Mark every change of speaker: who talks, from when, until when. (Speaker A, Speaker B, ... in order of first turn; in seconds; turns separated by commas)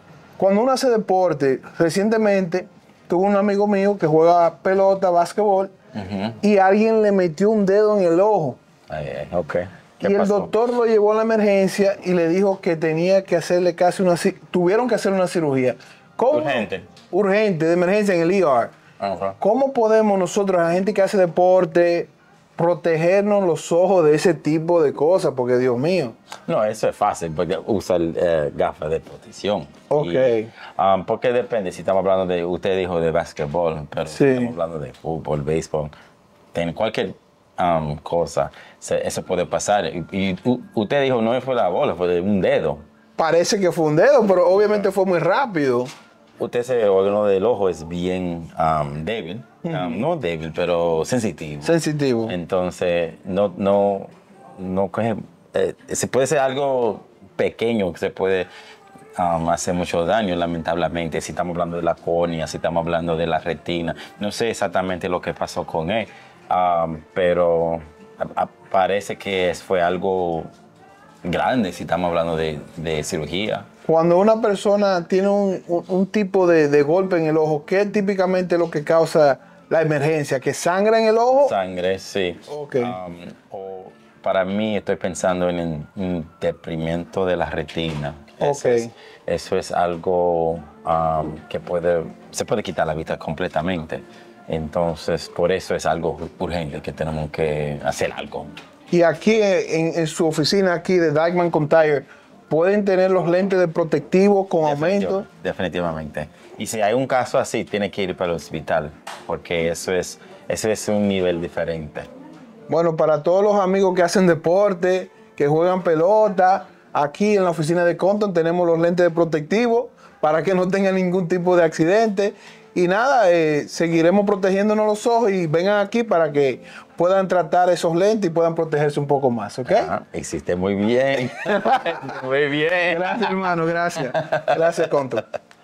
Speaker A: 0.4-5.7, Speaker B: 5.9-6.4, Speaker A: 6.4-8.6, Speaker B: 8.9-10.5, Speaker A: 10.0-18.7, Speaker B: 16.3-16.9, Speaker B: 19.0-19.4, Speaker A: 19.4-26.2, Speaker B: 26.5-35.9, Speaker A: 29.9-30.5, Speaker A: 34.1-34.5, Speaker B: 36.5-42.8, Speaker A: 43.2-45.9, Speaker B: 46.4-51.7, Speaker A: 49.6-50.0, Speaker A: 51.6-52.3, Speaker B: 52.3-58.5, Speaker B: 59.1-70.5, Speaker B: 71.2-73.7, Speaker A: 73.8-81.5, Speaker B: 81.4-98.5, Speaker A: 82.5-83.0, Speaker A: 88.4-88.9, Speaker A: 98.9-105.2, Speaker B: 104.6-112.1, Speaker A: 112.7-129.9, Speaker B: 129.7-134.4, Speaker A: 131.4-132.1, Speaker A: 132.9-135.3